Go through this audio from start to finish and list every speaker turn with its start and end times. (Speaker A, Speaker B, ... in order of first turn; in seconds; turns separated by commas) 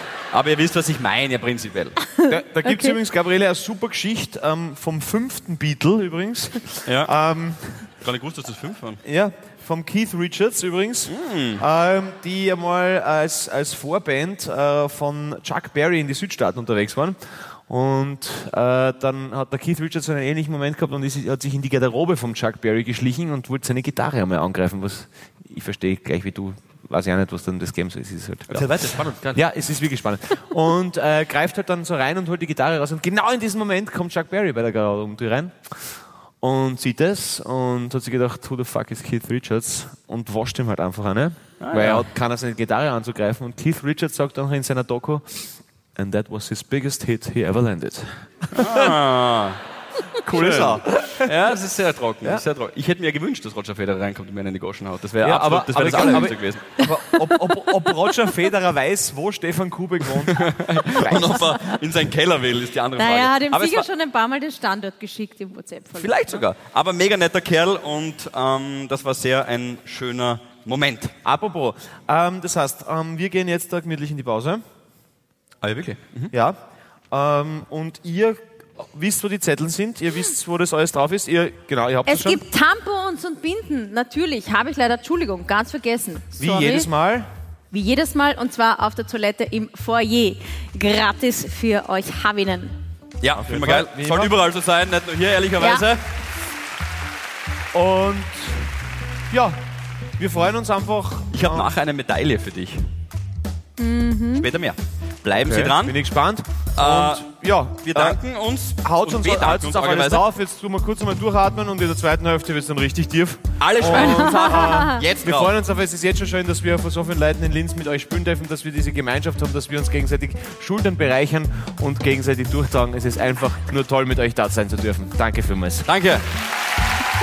Speaker A: 0.3-2.0, Speaker B: 2.2-3.0, Speaker C: 2.3-7.9, Speaker A: 6.8-7.1, Speaker A: 8.0-9.0, Speaker C: 9.0-28.7, Speaker A: 11.1-11.6, Speaker A: 28.5-29.4, Speaker C: 29.3-49.0, Speaker A: 41.6-42.1, Speaker A: 48.5-49.6, Speaker C: 50.2-51.5, Speaker A: 50.2-57.1, Speaker C: 55.2-61.5, Speaker A: 60.2-63.9, Speaker B: 63.0-66.4, Speaker A: 66.0-71.1, Speaker C: 71.2-74.6, Speaker A: 75.6-76.3, Speaker C: 76.3-76.6, Speaker C: 77.1-82.4, Speaker B: 82.1-86.9, Speaker C: 86.4-87.3, Speaker B: 87.7-92.8, Speaker A: 93.2-96.0, Speaker C: 93.3-94.3, Speaker B: 95.6-95.8, Speaker C: 97.7-98.8, Speaker C: 99.3-99.6, Speaker C: 100.2-101.7, Speaker A: 101.3-102.9, Speaker B: 103.8-104.5, Speaker A: 104.4-106.0, Speaker C: 105.4-108.2, Speaker A: 106.8-107.3, Speaker A: 107.8-110.2, Speaker C: 108.8-125.9, Speaker A: 113.6-115.5, Speaker B: 114.0-115.0, Speaker A: 125.9-126.3